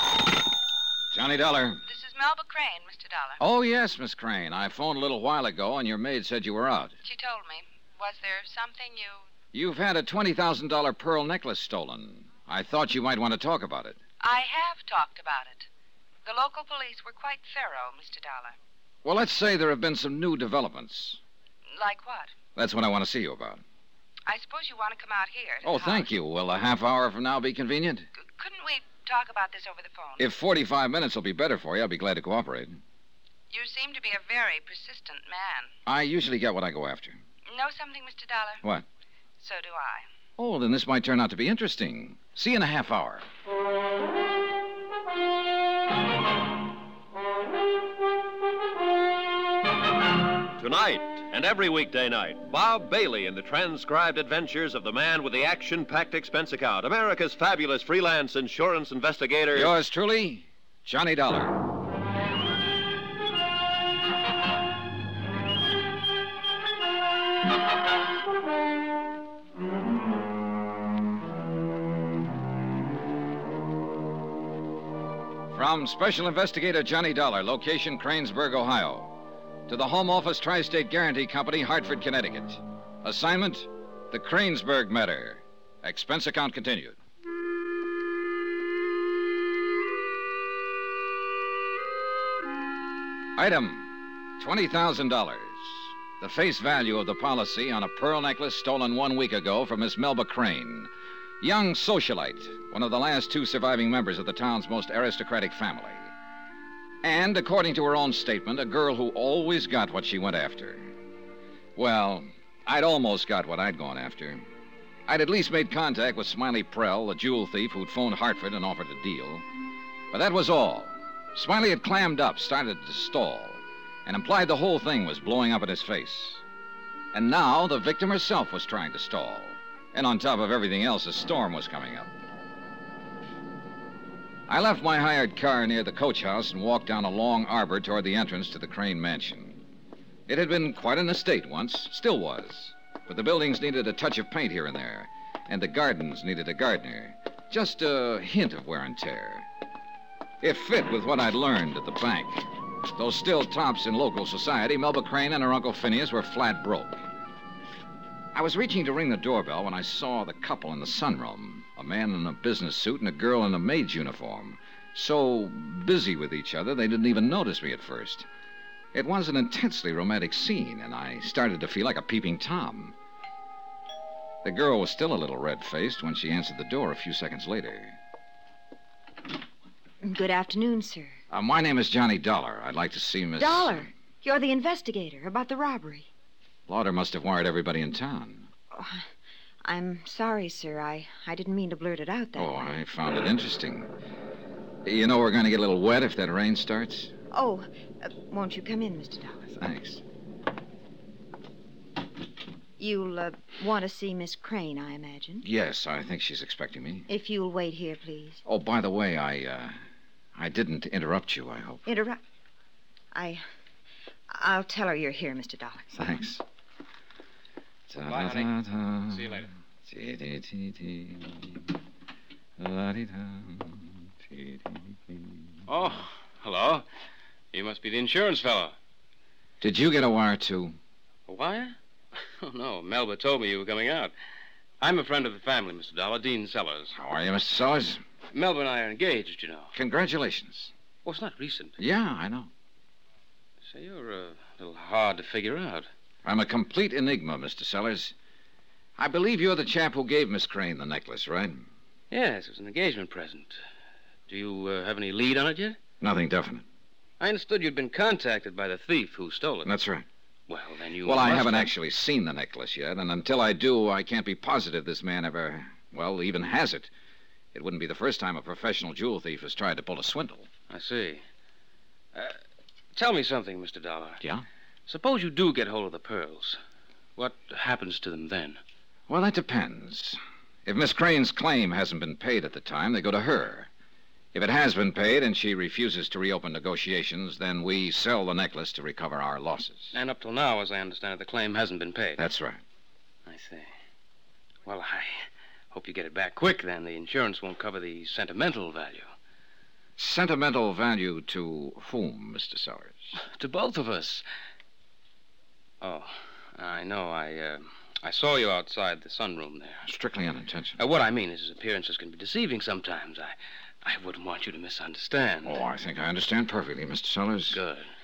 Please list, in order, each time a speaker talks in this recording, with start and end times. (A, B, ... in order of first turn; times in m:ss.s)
0:01.1-0:01.8 A
0:01.9-0:03.4 B
0:03.4-0:07.0 A
0:07.0-0:09.2 B
0:09.5-0:14.0 A
0:14.2-0:15.7 B
0:16.2-0:18.6 B
0:19.0-0:21.2 A
0:21.7-0:22.3 B
0:22.6-0:23.6 A
0:24.3-0:26.1 B
0:25.6-0:28.1 A
0:28.2-0:30.3 B
0:30.2-0:32.8 A
0:33.5-0:35.7 B
0:35.9-0:37.2 A
0:37.5-0:38.6 B
0:39.4-0:40.1 B
0:40.4-0:43.3 A
0:50.6-0:59.7 C
0:59.5-1:01.6 A
1:15.5-1:19.2 A
1:19.7-1:27.0 A
1:33.4-1:40.9 A
1:41.4-1:46.2 A
1:47.0-1:51.0 A
1:51.8-1:54.4 A
1:55.1-1:59.5 A
2:00.1-2:06.4 A
2:07.1-2:12.1 A
2:14.5-2:19.6 A
2:20.3-2:29.5 A
2:30.4-2:37.0 A
2:38.3-2:48.3 A
2:48.9-2:53.0 A
2:54.4-2:58.0 A
3:00.0-3:01.1 D
3:01.3-3:03.9 A
3:03.4-3:06.1 D
3:06.7-3:08.5 A
3:08.7-3:09.1 D
3:09.6-3:12.5 D
3:12.4-3:13.9 A
3:14.8-3:17.1 A
3:17.3-3:19.5 D
3:19.6-3:20.0 A
3:22.8-3:25.4 D
3:25.4-3:27.1 A
3:27.1-3:28.4 D
3:28.5-3:29.8 A
3:30.4-3:31.8 A
3:31.9-3:32.2 D
3:33.1-3:33.4 D
3:34.3-3:35.9 D
3:35.9-3:36.4 A
3:37.9-3:41.6 A
3:38.0-3:38.5 E
3:39.1-3:39.5 E
3:42.6-3:45.5 A
3:45.7-3:46.9 E
3:47.5-3:48.8 E
3:49.6-3:50.8 A
3:51.3-3:51.8 E
3:52.4-3:54.1 E
3:54.8-3:56.9 E
3:56.9-3:58.0 A
3:58.3-3:59.7 E
3:59.7-4:00.7 A
4:01.0-4:01.8 E
4:01.8-4:02.5 A
4:03.7-4:05.9 E
4:06.2-4:08.2 A
4:09.0-4:11.6 A
4:12.1-4:13.6 E
4:14.3-4:15.8 E
4:16.0-4:16.6 A
4:17.2-4:19.7 E
4:19.6-4:20.1 A
4:20.5-4:21.7 E
4:21.0-4:26.9 A
4:27.5-4:30.5 A
4:30.7-4:31.2 E
4:32.9-4:34.2 E
4:34.9-4:36.6 E
4:37.2-4:38.6 E
4:39.1-4:43.7 A
4:44.3-4:49.9 A
4:49.9-4:52.2 E
4:52.2-4:52.6 A
4:53.3-4:53.7 E
4:54.7-4:59.1 E
5:00.0-5:03.1 A
5:03.2-5:04.2 E
5:05.8-5:09.9 E
5:09.9-5:10.8 A
5:10.8-5:15.6 E
5:15.4-5:17.6 A
5:17.5-5:17.9 E